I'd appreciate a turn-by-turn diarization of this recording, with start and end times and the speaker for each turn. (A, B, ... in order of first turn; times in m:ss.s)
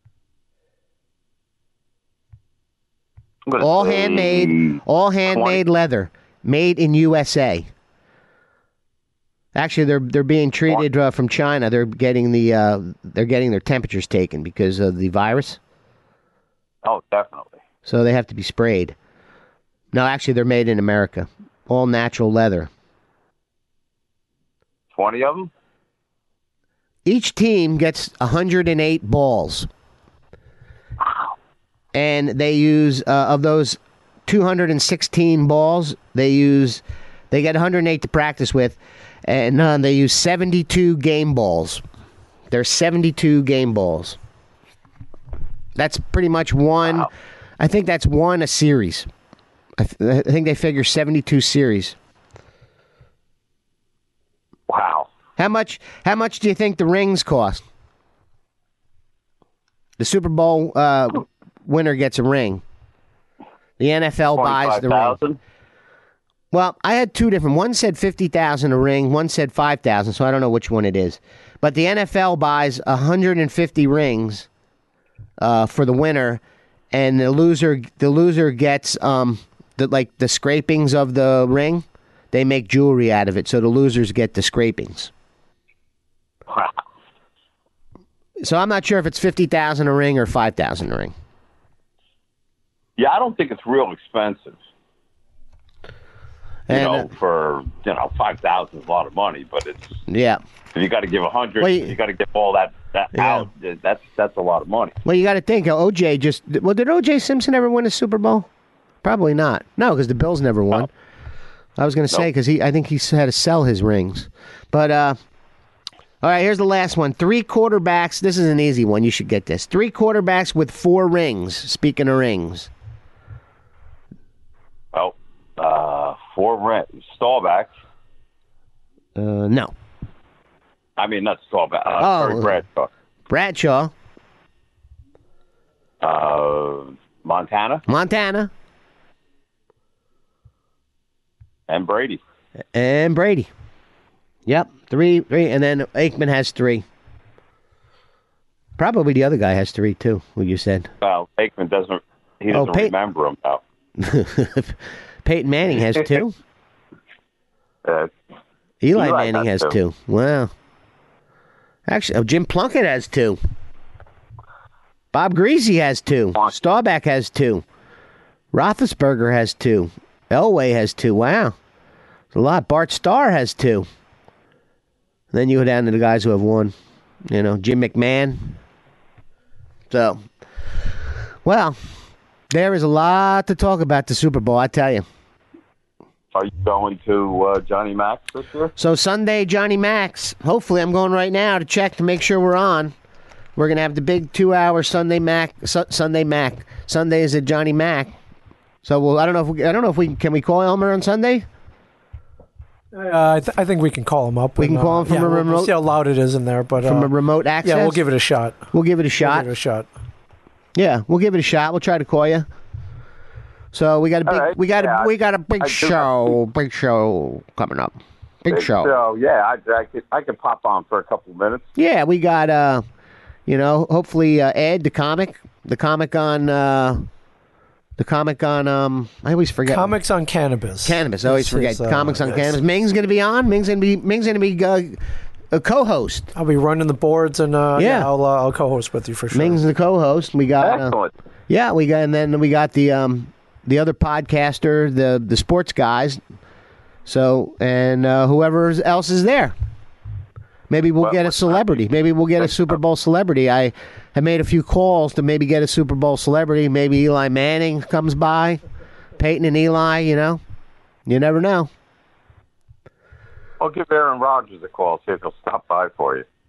0:03.5-0:05.6 A
0:03.6-0:07.7 B
0:09.5-0:15.6 B
0:16.8-0:17.6 A
0:17.8-0:19.0 B
0:19.9-0:22.7 B
0:24.9-0:25.5 A
0:27.0-0:29.7 B
0:31.9-0:41.8 B
0:42.5-0:44.2 B
0:45.8-0:49.1 B
0:49.8-0:52.0 B
0:54.7-0:55.1 A
0:55.4-0:57.6 B
1:00.0-1:02.6 B
1:03.8-1:05.2 B
1:04.3-1:05.4 A
1:06.5-1:14.5 B
1:15.4-1:16.4 B
1:16.9-1:25.1 B
1:26.5-1:26.8 A
1:28.4-1:31.1 B
1:33.0-1:34.6 A
1:36.7-1:37.1 B
1:36.7-1:39.9 A
1:40.1-1:40.4 B
1:40.7-1:45.0 A
1:41.6-1:41.9 B
1:43.1-1:43.5 B
1:45.0-1:48.5 B
1:49.0-1:50.9 B
1:51.8-1:55.2 B
1:56.2-2:02.7 B
2:04.9-2:07.7 A
2:09.2-2:09.7 B
2:11.0-2:12.9 A
2:12.0-2:12.6 B
2:13.3-2:13.9 B
2:16.0-2:17.8 A
2:17.9-2:18.5 B
2:21.7-2:22.2 A
2:22.7-2:23.5 B
2:24.4-2:26.8 B
2:28.8-2:30.9 B
2:31.0-2:33.6 A
2:32.5-2:32.9 B
2:34.0-2:36.3 B
2:37.8-2:38.1 A
2:38.8-2:40.5 B
2:38.9-2:39.8 A
2:41.9-2:43.4 B
2:45.1-2:47.6 B
2:48.5-2:51.6 B
2:52.3-2:53.9 B
2:55.3-2:56.7 B
2:57.3-2:58.6 B
2:59.9-3:00.2 B
3:01.4-3:01.8 B
3:02.5-3:05.0 B
3:06.3-3:08.7 A
3:08.8-3:12.9 B
3:13.6-3:18.1 B
3:18.8-3:21.4 B
3:22.9-3:27.1 C
3:24.6-3:25.7 B
3:26.8-3:28.0 B
3:27.6-3:29.9 C
3:28.7-3:29.5 B
3:30.8-3:32.4 B
3:33.7-3:38.9 B
3:34.2-3:36.3 A
3:38.5-3:41.7 A
3:41.8-3:42.8 B
3:43.5-3:47.0 B
3:48.0-3:49.9 B
3:49.6-3:52.5 C
3:50.8-3:56.3 B
3:56.3-3:59.6 C
3:57.7-3:58.1 B
3:59.3-4:00.9 B
4:00.6-4:01.1 A
4:01.5-4:06.2 B
4:07.0-4:09.5 B
4:10.7-4:18.6 B
4:11.0-4:11.8 A
4:19.2-4:20.4 B
4:21.0-4:21.7 B
4:23.6-4:26.2 A